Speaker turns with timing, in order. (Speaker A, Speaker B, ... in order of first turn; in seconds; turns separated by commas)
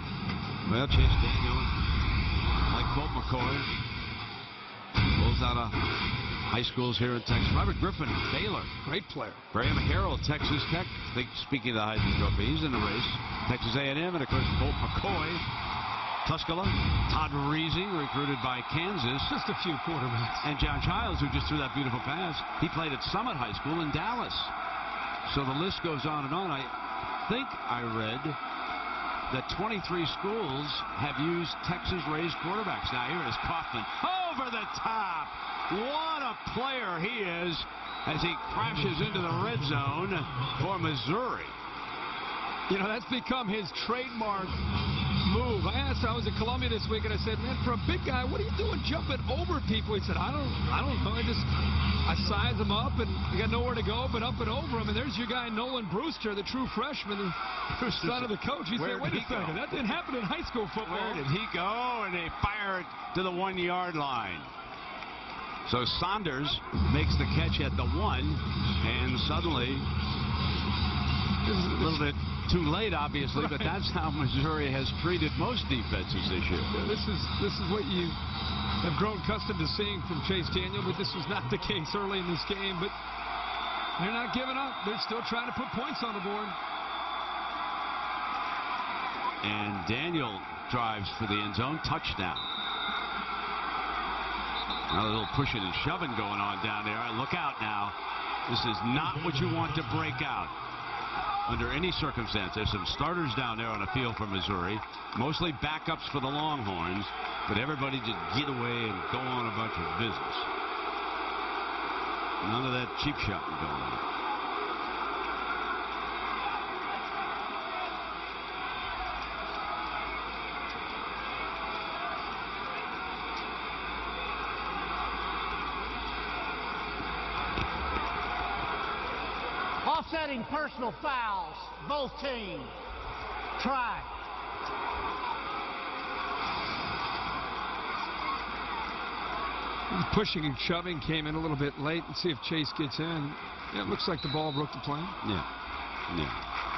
Speaker A: 0.7-1.7, Speaker A: 2.7-3.7, Speaker A: 5.2-5.8, Speaker A: 6.5-8.7, Speaker B: 8.8-9.4, Speaker A: 9.5-15.5, Speaker A: 16.2-19.3, Speaker B: 19.2-20.5, Speaker A: 20.4-24.5, Speaker A: 25.3-26.8, Speaker A: 27.3-28.4, Speaker A: 29.3-41.6, Speaker B: 42.7-44.7, Speaker B: 45.2-51.5, Speaker B: 52.0-61.2, Speaker A: 57.8-59.9, Speaker A: 60.8-64.5, Speaker A: 65.7-69.9, Speaker B: 71.5-72.0, Speaker A: 71.7-76.8, Speaker B: 73.3-73.7, Speaker B: 76.7-78.2, Speaker B: 78.8-82.9, Speaker B: 84.0-86.6, Speaker A: 89.4-92.5, Speaker A: 94.9-98.0, Speaker A: 98.5-100.5, Speaker A: 101.5-110.5, Speaker A: 112.4-114.0, Speaker C: 129.8-132.7, Speaker C: 133.6-134.1, Speaker B: 139.9-145.2, Speaker A: 146.1-146.4